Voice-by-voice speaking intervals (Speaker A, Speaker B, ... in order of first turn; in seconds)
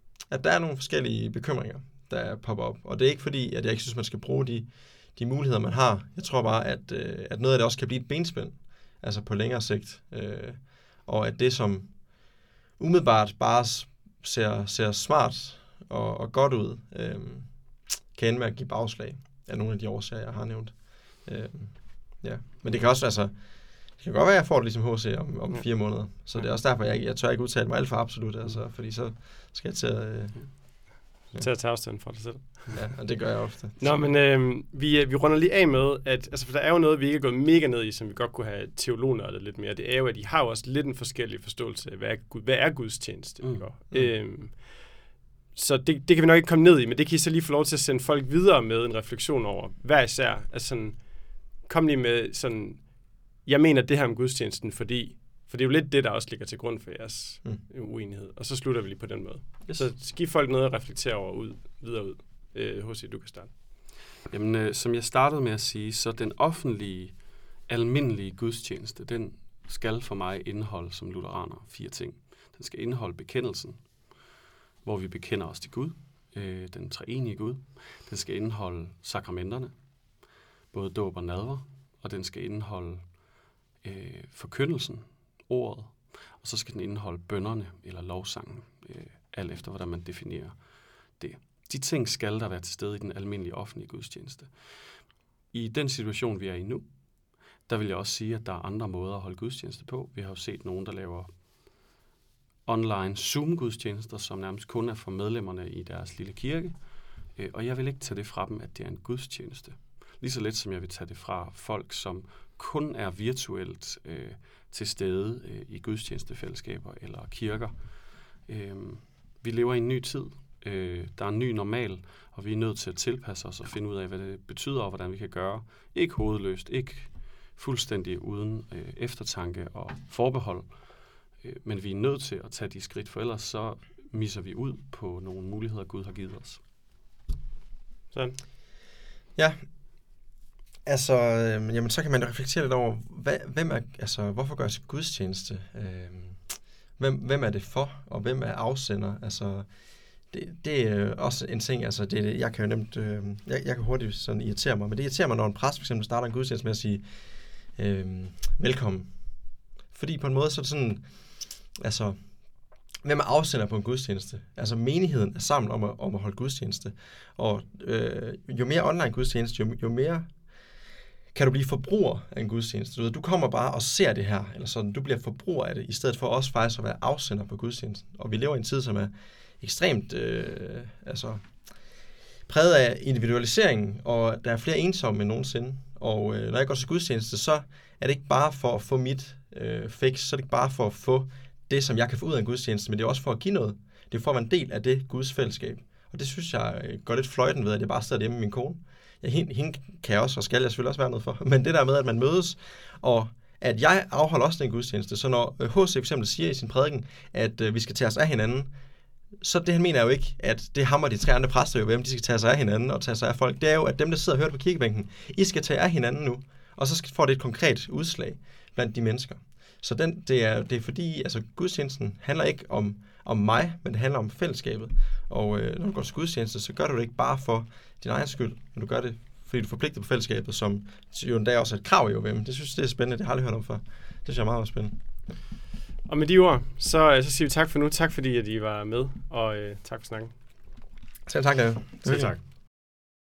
Speaker A: 0.3-12.2, 12.8-17.6, 18.1-31.5, 32.7-33.8, 140.8-149.7, 150.3-157.1, 157.7-159.2, 159.9-162.2, 163.0-170.3, 171.3-181.4, 182.5-208.7, 209.4-235.0, 241.3-242.4
Speaker B: 25.5-26.4, 31.2-33.2, 33.8-63.5, 138.1-138.4, 236.1-240.3, 242.1-242.4
Speaker C: 43.4-43.7, 64.3-67.2, 67.7-74.0, 74.8-79.8, 80.7-90.6, 91.1-94.5, 95.5-96.9, 97.6-101.3, 102.7-106.8, 107.3-117.8, 118.4-130.8, 131.4-136.6